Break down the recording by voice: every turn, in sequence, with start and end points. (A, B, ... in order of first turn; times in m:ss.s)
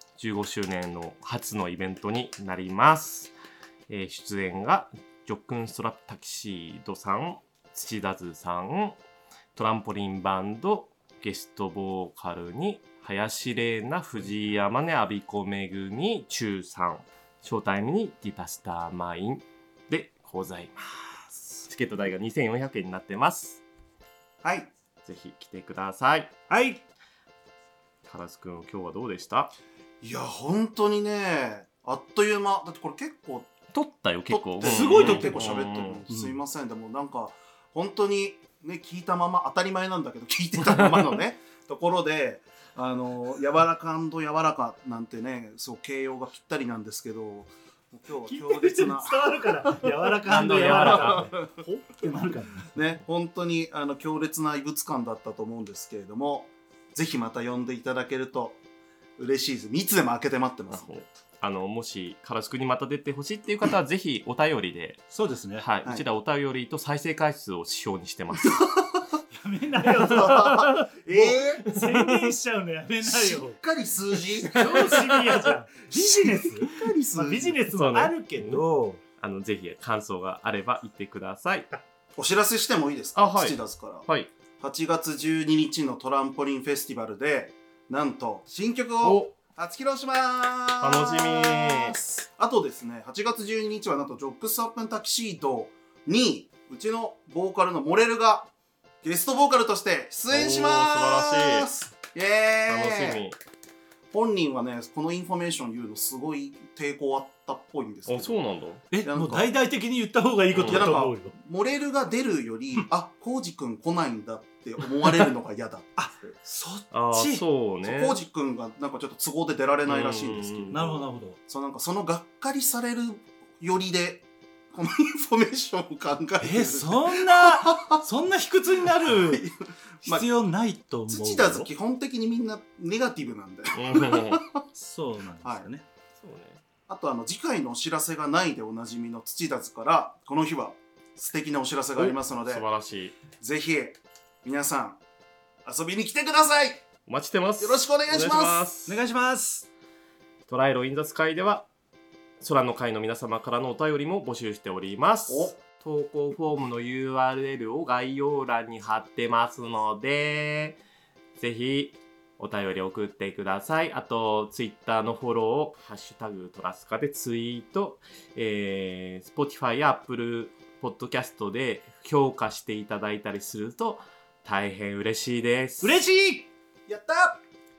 0:00.2-0:03.3 A
0:03.9-0:09.0 A
0:09.5-0:23.6 A
0:24.4-0:24.7 B
0:25.0-0:26.3 A
0:26.5-0:26.8 C
0:28.0-0:29.5 A
0:30.0-0:33.5 B
0:33.7-0:36.0 A
0:34.3-0:49.8 B
0:34.6-0:35.5 C
0:36.1-0:36.4 C
0:48.2-0:52.7 C
0:50.3-0:51.3 A
0:50.7-0:51.5 B
0:52.7-0:58.6 B
0:59.2-1:00.9 B
1:00.7-1:05.0 A
1:05.1-1:05.7 C
1:05.6-1:08.7 A
1:08.4-1:09.0 B
1:09.3-1:13.6 C
1:09.9-1:11.7 B
1:11.6-1:12.2 A
1:13.0-1:15.2 B
1:14.5-1:19.0 C
1:14.5-1:15.4 A
1:15.9-1:17.6 B
1:17.7-1:18.6 A
1:19.2-1:21.7 A
1:22.2-1:24.1 B
1:23.2-1:24.3 A
1:24.6-1:38.5 B
1:29.0-1:29.3 A
1:30.8-1:32.0 A
1:39.0-1:43.2 B
1:40.3-1:41.7 A
1:42.7-1:43.4 A
1:44.1-1:48.4 B
1:48.1-1:48.8 A
1:48.9-1:51.3 C
1:49.0-1:49.5 B
1:50.5-1:50.9 A
1:50.6-1:56.3 B
1:56.0-1:57.4 C
1:56.9-1:58.2 A
1:57.8-2:00.8 B
1:59.9-2:01.0 A
2:00.7-2:01.4 C
2:01.5-2:08.0 B
2:06.4-2:09.5 C
2:09.0-2:10.3 B
2:10.0-2:11.7 C
2:11.1-2:14.6 B
2:13.7-2:14.4 A
2:14.7-2:15.8 C
2:16.2-2:16.6 A
2:16.9-2:22.6 B
2:22.0-2:23.2 A
2:23.4-2:25.0 B
2:25.6-2:26.8 B
2:27.1-2:29.0 A
2:27.6-2:28.7 B
2:28.8-2:29.7 C
2:30.5-2:31.6 A
2:32.4-2:40.8 A
2:35.3-2:35.5 B
2:41.4-2:56.0 A
2:55.8-2:56.5 C
2:56.9-2:57.4 B